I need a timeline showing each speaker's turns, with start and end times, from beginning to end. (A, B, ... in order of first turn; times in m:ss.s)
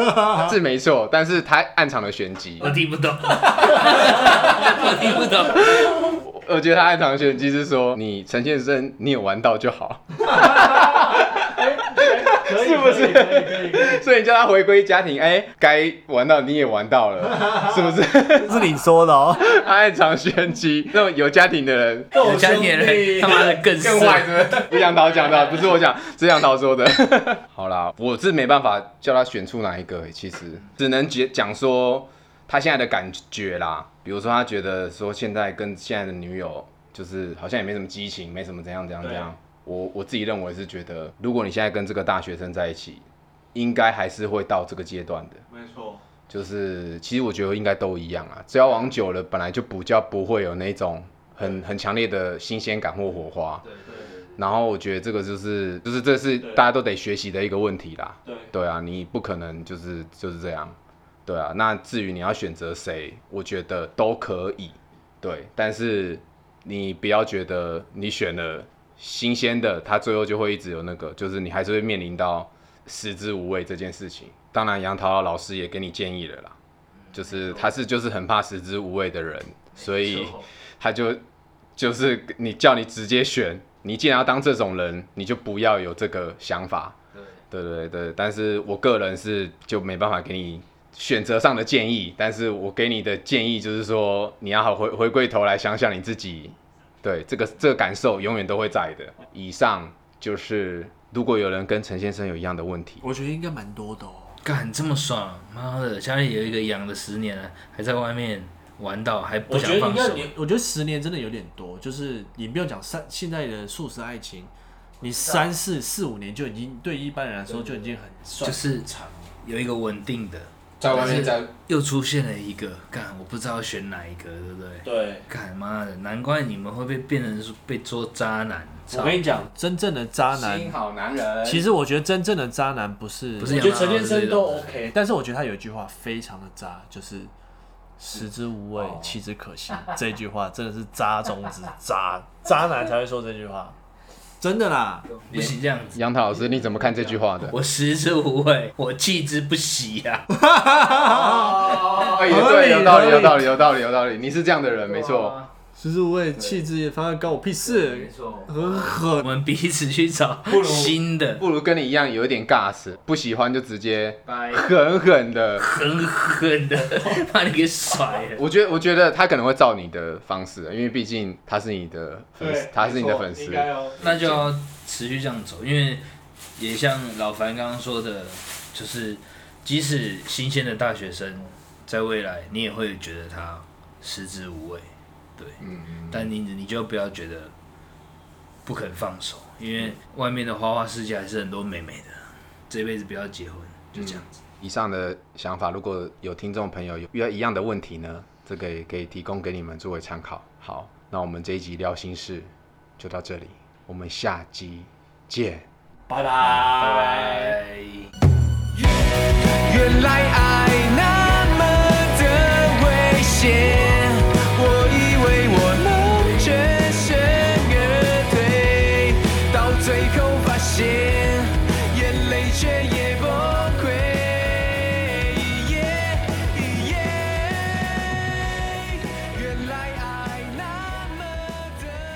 0:00.2-0:02.7 A
0:02.6-0:06.1 B
0:04.6-0:18.7 A
0:10.3-0:14.0 C
0:18.4-0:19.6 C
0:19.3-0:22.2 A
0:22.1-0:23.6 C
0:22.2-0:24.6 B
0:23.8-0:45.4 A
0:39.0-0:39.3 C
0:45.5-0:46.0 C
0:46.3-0:53.7 A
0:53.6-0:54.4 B
0:53.9-0:54.1 C
0:54.4-1:16.6 A
0:58.2-0:58.5 C
1:17.0-1:17.7 B
1:17.1-1:21.2 A
1:19.8-1:20.5 B
1:21.8-1:27.0 A
1:27.1-1:27.4 B
1:27.5-1:43.0 A
1:43.0-1:44.4 C
1:44.4-1:50.3 B
1:49.5-1:59.0 C
1:55.1-1:55.5 B
1:58.4-1:58.9 B
1:59.4-2:09.2 B
2:00.8-2:01.5 A
2:04.8-2:05.3 C
2:08.9-2:10.8 C
2:10.3-2:11.7 A
2:11.4-2:17.3 C
2:13.4-2:14.8 B
2:18.0-2:23.8 C
2:18.8-2:19.2 A
2:24.4-2:25.1 C
2:25.1-2:26.0 B
2:26.0-2:27.6 A
2:26.8-2:30.3 B
2:30.3-2:33.6 C
2:30.9-2:35.4 A
2:34.9-2:35.5 B
2:35.8-2:39.3 C
2:37.6-2:41.4 B
2:40.5-2:41.0 C
2:41.4-2:45.6 A
2:44.3-2:44.7 B
2:45.6-2:48.4 B
2:48.4-2:54.5 A
2:52.4-2:54.1 C
2:54.0-2:56.0 B
2:56.6-3:04.8 B
3:05.4-3:07.5 B
3:05.6-3:06.3 A
3:08.7-3:14.4 B
3:14.0-3:25.7 A
3:26.1-3:27.5 C
3:26.4-3:28.1 B
3:29.7-3:38.7 A
3:36.3-3:36.6 D
3:39.5-3:40.2 D
3:39.7-3:41.0 A
3:41.7-3:44.2 D
3:47.0-3:47.3 D
3:49.1-3:51.9 D